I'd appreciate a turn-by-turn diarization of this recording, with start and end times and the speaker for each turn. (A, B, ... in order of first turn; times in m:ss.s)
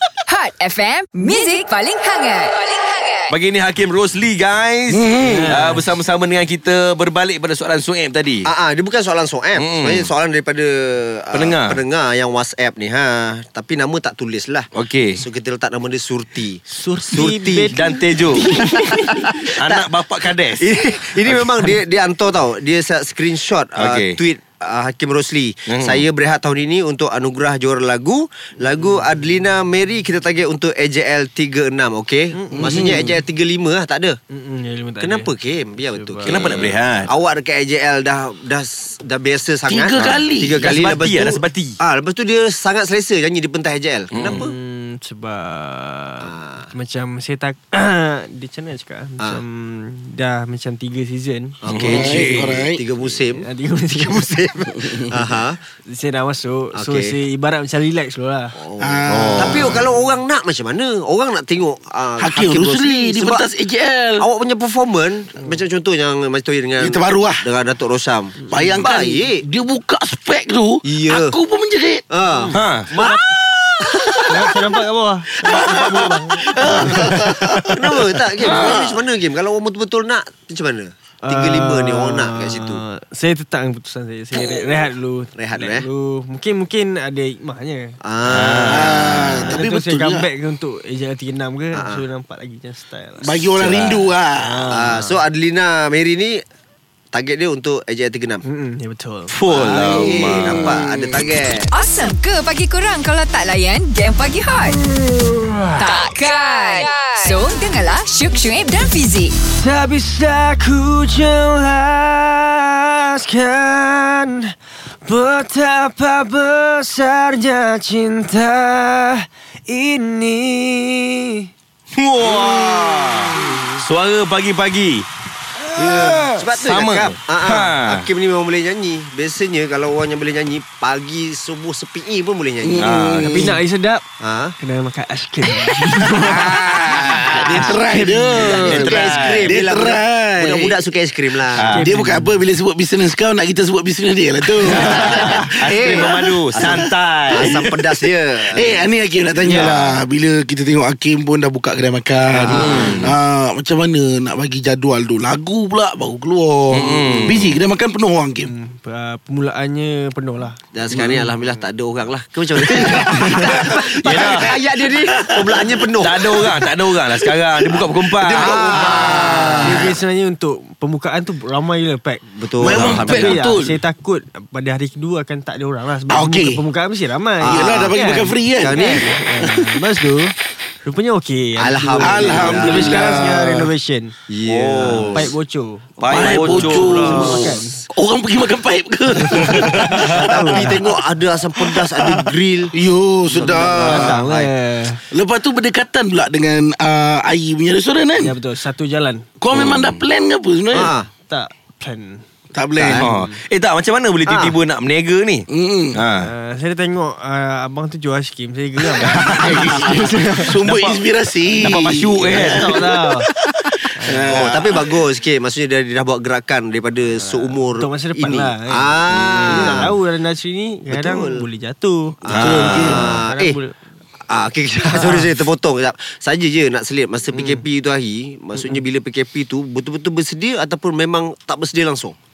0:00.3-0:03.3 A
0:03.3-0:08.5 B
0:04.9-0:05.6 C
0:05.2-0:05.8 D
0:08.5-0:17.7 E
0:09.6-0:10.1 B
0:11.3-0:11.8 B
0:14.8-0:15.2 B
0:16.7-0:19.3 D
0:17.7-0:18.6 B
0:18.5-0:19.9 E
0:19.4-0:21.7 B
0:20.6-0:34.2 E
0:23.8-0:24.2 B
0:25.7-0:26.0 B
0:32.3-0:33.1 D
0:32.6-0:33.2 C
0:34.3-0:35.3 D
0:35.0-0:44.5 E
0:35.8-0:36.7 D
0:36.2-0:37.1 B
0:39.7-0:40.8 C
0:40.0-0:41.8 B
0:44.1-0:44.4 B
0:44.3-0:51.6 D
0:46.2-0:46.7 E
0:51.6-0:55.6 E
0:51.7-0:52.6 B
0:51.7-0:52.8 C
0:53.3-0:54.5 D
0:54.7-0:55.3 C
0:55.8-0:58.6 D
0:56.8-0:57.2 E
0:58.6-1:03.4 E
0:58.8-0:59.9 C
0:59.1-0:59.8 B
1:02.2-1:04.3 C
1:04.2-1:09.4 E
1:06.8-1:07.4 C
1:08.4-1:08.8 D
1:08.5-1:12.0 C
1:10.9-1:11.4 E
1:12.1-1:13.2 E
1:12.3-1:13.2 D
1:12.5-1:12.9 B
1:13.0-1:14.7 C
1:14.3-1:17.4 D
1:15.4-1:19.0 C
1:16.6-1:22.8 E
1:21.2-1:28.0 D
1:25.4-1:25.9 E
1:28.0-1:29.6 E
1:28.2-1:29.3 B
1:28.6-1:30.3 C
1:29.4-1:33.4 D
1:31.7-1:32.0 E
1:33.2-1:34.7 C
1:33.6-1:34.0 E
1:34.4-1:35.2 D
1:34.7-1:36.4 E
1:37.1-1:38.4 E
1:38.4-1:39.3 D
1:39.3-1:40.9 B
1:39.5-1:41.7 E
1:40.4-1:41.2 C
1:41.7-1:44.8 A
1:45.2-1:45.7 D
1:45.8-1:49.4 A
1:49.5-2:01.5 D
2:02.0-2:05.1 B
2:02.3-2:03.7 C
2:03.4-2:03.7 E
2:05.8-2:06.3 C
2:05.8-2:06.4 D
2:06.4-2:12.9 E
2:06.5-2:08.1 B
2:12.6-2:13.6 C
2:12.8-2:13.5 B
2:13.3-2:14.0 D
2:14.2-2:14.5 E
2:14.6-2:16.7 D
2:16.0-2:20.9 C
2:17.3-2:17.8 E
2:17.7-2:18.7 D
2:18.4-2:21.7 E
2:18.4-2:19.6 B
2:21.5-2:21.9 B
2:21.7-2:22.4 D
2:21.7-2:26.8 C
2:24.6-2:27.7 B
2:24.7-2:28.8 E
2:27.4-2:27.8 C
2:28.5-2:38.5 C
2:29.5-2:30.0 B
2:32.4-2:33.1 E
2:32.5-2:33.1 B
2:36.7-2:37.6 B
2:38.4-2:41.3 D
2:40.8-2:46.4 E
2:42.6-2:46.7 C
2:43.0-2:43.5 D
2:44.0-2:44.5 B
2:46.0-2:49.0 B
2:47.2-2:50.0 C
2:48.3-2:49.8 E
2:49.6-2:52.2 D
2:52.3-2:53.4 E
2:52.6-2:53.8 C
2:52.7-2:53.1 B
2:52.9-3:04.1 D
2:56.1-2:56.6 C
2:57.4-2:57.9 E
2:57.4-2:59.8 C
2:58.6-2:59.1 E
3:01.6-3:03.3 E
3:02.0-3:03.7 C
3:04.3-3:05.3 E
3:04.4-3:05.3 B
3:04.9-3:07.8 D
3:06.0-3:07.4 B
3:06.1-3:11.0 C
3:06.2-3:07.6 E
3:09.2-3:10.8 D
3:09.9-3:12.7 E
3:11.6-3:14.2 C
3:13.3-3:14.5 E
3:13.4-3:15.0 D
3:15.1-3:18.4 C
3:18.2-3:19.3 D
3:19.4-3:20.9 C
3:19.5-3:20.0 B
3:20.7-3:21.1 E
3:21.3-3:22.2 D
3:22.5-3:23.1 C
3:22.9-3:26.3 B
3:22.9-3:23.4 D
3:24.3-3:24.5 E
3:25.5-3:26.0 C
3:26.2-3:30.8 D
3:29.0-3:35.0 C
3:29.4-3:29.9 B
3:31.6-3:32.8 B
3:32.3-3:33.3 D
3:34.0-3:34.5 D
3:34.2-3:39.9 E
3:37.2-3:43.8 D
3:39.1-3:39.8 B
3:40.9-3:41.4 E
3:42.2-3:43.6 E
3:42.3-3:43.1 B
3:42.3-3:43.1 C
3:44.3-3:52.2 E
3:44.9-3:45.3 D
3:47.3-3:47.6 D
3:48.6-3:48.8 D